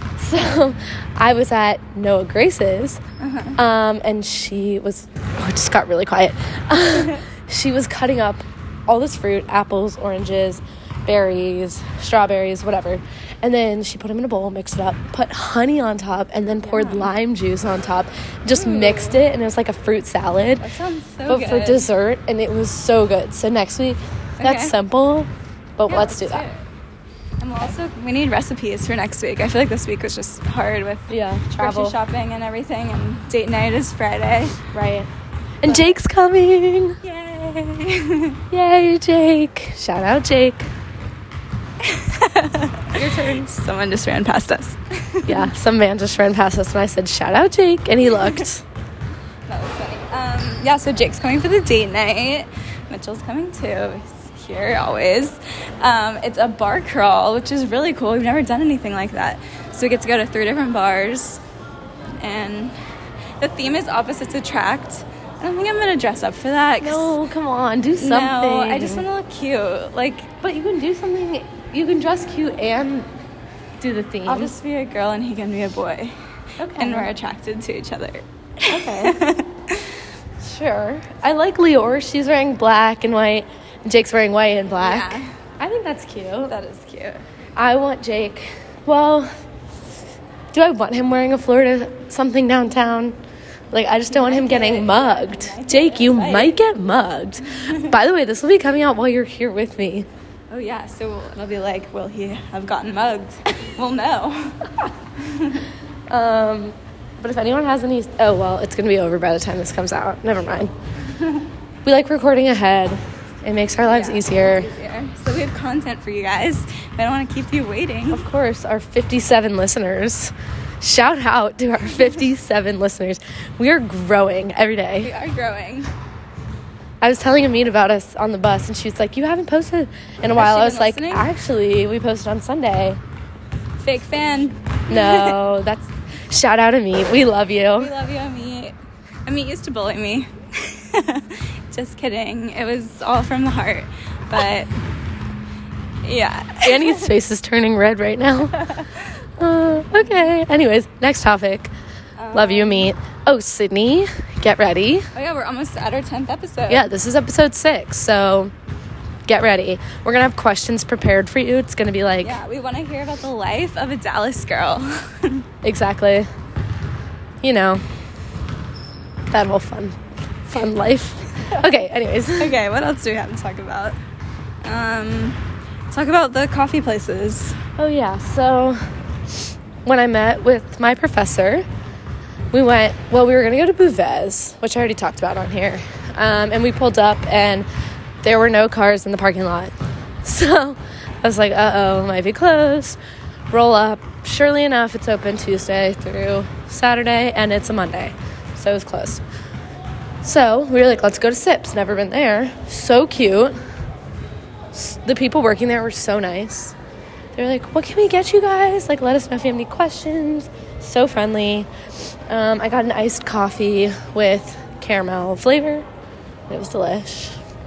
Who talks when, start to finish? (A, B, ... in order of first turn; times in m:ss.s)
0:00.2-0:03.0 A
0:03.2-0:03.6 B
0:03.6-0:20.6 A
0:16.6-0:17.1 B
0:18.5-0:19.2 B
0:20.6-0:21.9 B
0:21.3-0:26.4 A
0:24.4-0:24.7 B
0:25.9-0:26.6 B
0:27.4-0:34.6 B
0:31.1-0:32.0 A
0:34.7-0:35.1 A
0:35.6-0:37.0 A
0:35.6-0:36.0 B
0:37.0-0:38.4 B
0:38.5-0:40.7 A
0:41.8-0:45.5 B
0:42.9-0:43.5 A
0:45.3-0:48.6 A
0:48.1-0:48.5 B
0:49.5-1:01.4 B
1:02.2-1:02.7 B
1:03.4-1:07.1 B
1:06.8-1:09.0 A
1:08.0-1:10.3 B
1:10.4-1:13.1 A
1:13.8-1:14.5 A
1:14.2-1:19.9 B
1:16.6-1:17.1 A
1:18.7-1:19.2 A
1:20.4-1:26.5 A
1:24.8-1:25.3 B
1:26.5-1:27.2 B
1:27.6-1:29.3 A
1:30.5-1:33.2 A
1:33.7-1:40.1 A
1:34.1-1:36.6 B
1:37.5-1:37.9 B
1:40.5-1:45.7 B
1:46.1-1:50.7 A
1:51.1-1:51.5 B
1:51.8-1:54.7 A
1:53.9-1:58.2 B
1:58.1-2:05.1 A
2:05.0-2:05.9 B
2:07.0-2:13.0 A
2:10.3-2:11.3 B
2:13.8-2:15.4 B
2:14.9-2:17.9 A
2:17.8-2:18.7 B
2:19.2-2:24.7 B
2:26.0-2:27.1 B
2:26.6-2:28.6 A
2:28.5-2:29.2 B
2:29.4-2:31.7 A
2:32.2-2:32.9 B
2:32.3-2:35.1 A
2:35.1-2:36.9 B
2:36.7-2:38.5 A
2:39.3-2:42.4 A
2:42.2-2:45.4 B
2:45.6-2:46.3 A
2:47.4-2:47.8 A
2:49.3-2:52.6 A
2:51.4-2:51.7 B
2:52.4-2:54.0 B
2:54.6-2:57.6 B
2:57.8-2:58.8 A
2:59.8-3:01.6 A
3:02.5-3:07.7 A
3:08.2-3:13.0 A
3:13.5-3:19.2 A
3:20.2-3:23.6 A
3:24.7-3:26.8 A
3:27.3-3:31.7 A
3:32.3-3:35.8 A
3:36.5-3:37.4 A